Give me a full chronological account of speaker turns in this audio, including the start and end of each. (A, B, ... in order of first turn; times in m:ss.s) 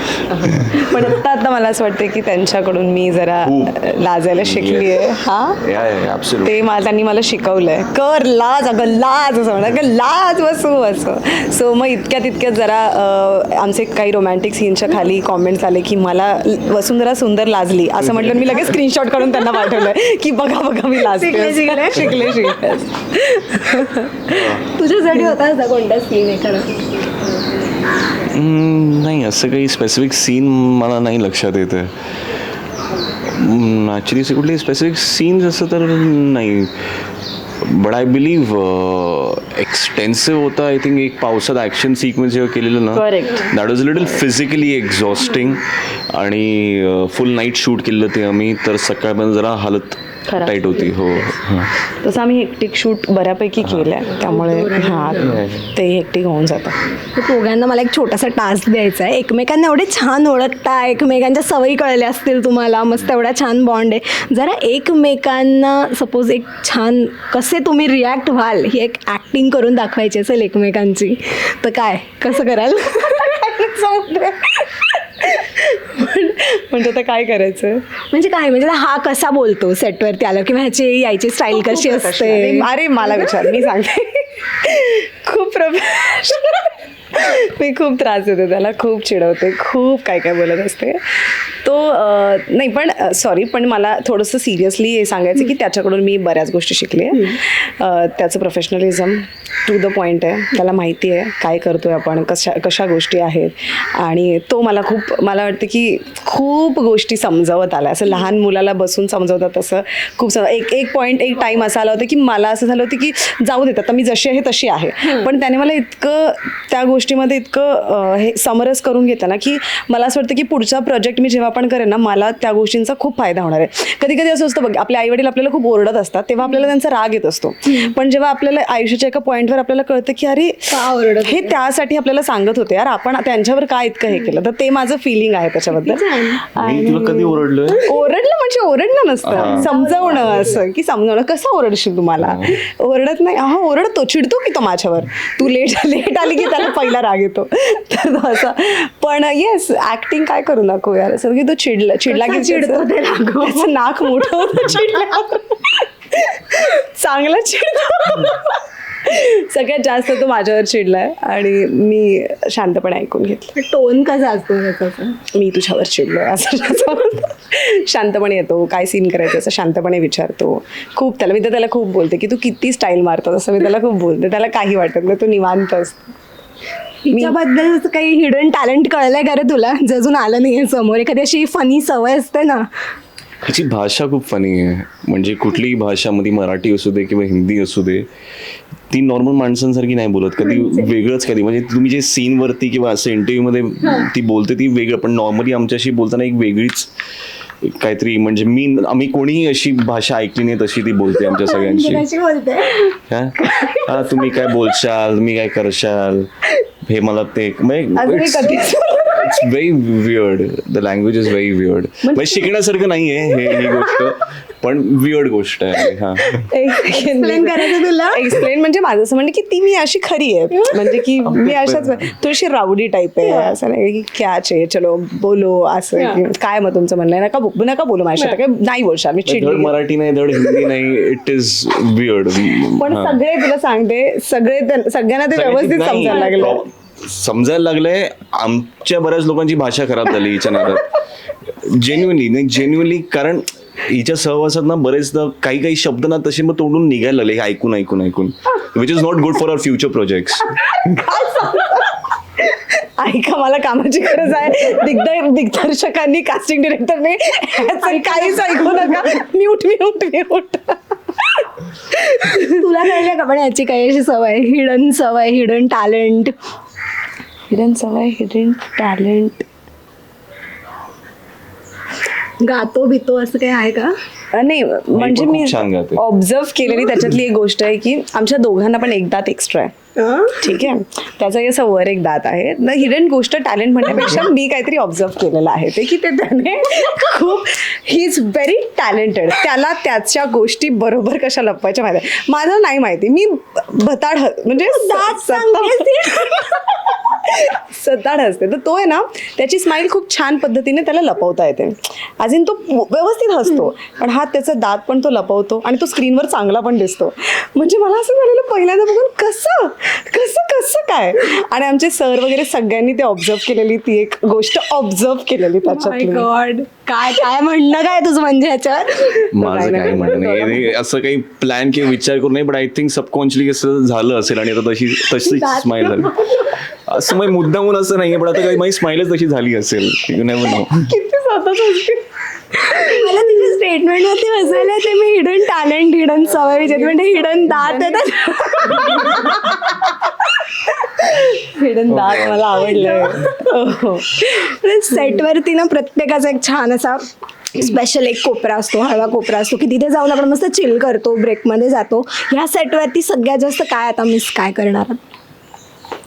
0:00.2-0:01.0 A
0:00.4-0:05.6 B
0:03.4-0:05.1 A
0:05.6-0:06.5 A
0:06.4-0:24.0 B
0:18.2-0:18.6 A
0:21.0-0:22.5 C
0:22.0-0:22.2 A
0:23.6-0:27.2 C
0:24.3-0:24.7 A
0:28.2-0:31.9 A
0:33.2-0:37.0 A
0:37.6-0:51.7 A
0:42.9-0:43.5 B
0:50.3-0:50.9 B
0:52.0-0:56.7 B
0:53.6-0:53.9 A
0:54.2-0:55.2 C
0:55.2-0:55.7 A
0:57.1-1:14.8 C
1:13.4-1:14.3 B
1:15.3-1:17.8 B
1:18.1-1:23.6 C
1:21.5-2:10.7 B
2:07.6-2:07.9 C
2:10.7-2:11.6 C
2:11.2-2:32.9 B
2:14.1-2:14.4 C
2:15.7-2:16.4 C
2:16.6-2:17.8 A
2:19.2-2:19.7 A
2:19.4-2:20.5 C
2:22.2-2:22.6 A
2:32.0-2:33.7 C
2:33.4-2:43.6 B
2:34.8-2:35.2 C
2:43.6-2:45.2 C
2:45.3-2:56.1 B
2:57.0-3:02.7 C
2:57.1-2:57.4 B
3:03.4-3:08.1 A
3:08.9-3:16.9 A
3:10.4-3:10.9 C
3:17.6-3:22.1 A
3:21.2-3:22.9 C
3:23.1-3:36.4 A
3:23.4-3:24.4 C
3:28.0-3:29.4 B
3:32.0-3:32.6 B
3:36.3-3:49.8 B
3:36.9-3:38.2 C
3:40.5-3:41.0 C
3:41.2-3:42.1 A
3:43.2-3:43.6 C
3:46.0-3:46.2 C
3:49.2-3:53.2 A
3:52.7-3:56.6 B
3:55.3-4:01.0 A
3:56.1-3:56.4 C
4:01.5-4:10.9 A
4:11.0-4:21.4 B
4:17.8-4:19.0 C
4:22.1-4:22.5 B
4:22.3-4:26.3 C
4:27.5-4:29.4 B
4:32.4-4:33.9 C
4:34.3-4:39.7 B
4:34.9-4:36.0 A
4:40.0-4:40.5 C
4:40.3-5:16.3 B
4:54.6-4:56.5 C
5:15.6-5:20.7 C
5:19.3-5:30.9 A
5:25.2-5:26.6 C
5:31.0-5:32.0 B
5:32.5-5:39.7 C
5:37.5-5:38.2 B
5:39.0-5:39.8 B
5:41.0-5:44.4 B
5:41.9-5:42.5 A
5:42.5-5:43.2 C
5:44.4-5:55.0 C
5:44.9-5:45.2 B